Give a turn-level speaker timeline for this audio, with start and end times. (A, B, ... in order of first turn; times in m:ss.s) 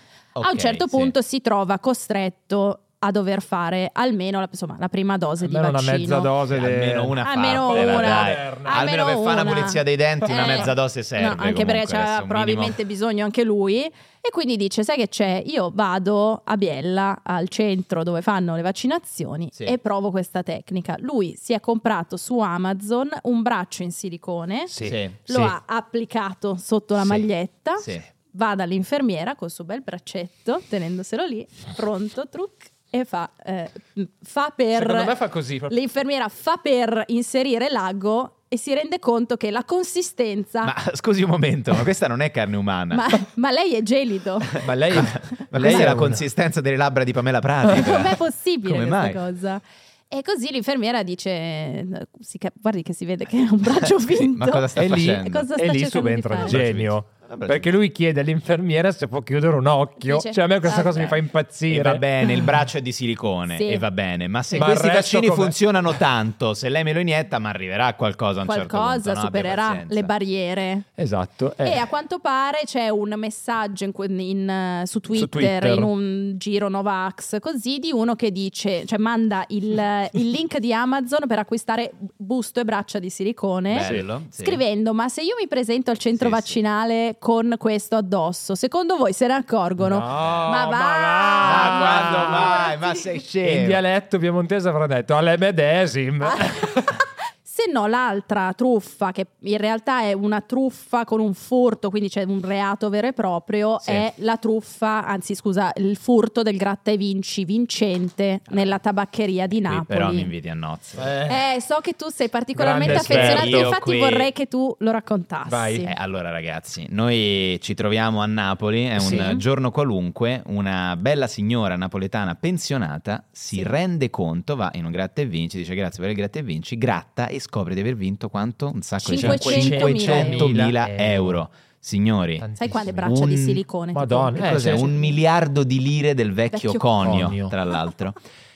0:00.4-0:01.1 A
0:00.4-0:06.3 B
0:05.4-0:08.9 C
0:06.5-0:12.8 A
0:07.2-0:24.7 B
0:24.7-0:25.6 C
0:24.8-0:25.2 A
0:25.3-0:40.8 B
0:27.8-0:28.1 A
0:34.8-0:35.7 C
0:40.6-0:43.1 A
0:42.9-0:45.0 B
0:44.6-0:46.2 C
0:44.9-0:49.2 A
0:47.7-0:56.6 B
0:53.8-0:55.5 A
0:54.8-1:02.0 C
0:56.4-0:57.7 A
1:00.0-1:01.2 B
1:01.7-1:10.1 A
1:03.5-1:03.8 B
1:04.5-1:05.6 C
1:08.4-1:10.9 B
1:11.0-1:11.8 C
1:11.6-1:33.0 B
1:15.1-1:15.9 C
1:23.7-1:24.6 A
1:26.2-1:26.6 A
1:29.8-1:32.7 C
1:31.4-1:33.8 A
1:33.4-1:37.0 C
1:36.2-1:50.3 B
1:49.7-1:51.0 A
1:51.0-1:51.4 C
1:51.3-1:55.9 B
1:52.6-1:53.7 C
1:52.8-1:54.3 A
1:55.5-1:55.9 C
1:55.9-2:12.5 A
1:59.0-1:59.3 C
1:59.0-1:59.4 B
2:09.0-2:10.5 B
2:09.2-2:11.4 C
2:12.4-2:13.2 C
2:12.6-2:14.5 B
2:13.0-2:13.6 A
2:13.9-2:14.9 C
2:14.4-2:18.2 A
2:16.5-2:17.0 B
2:17.0-2:17.6 C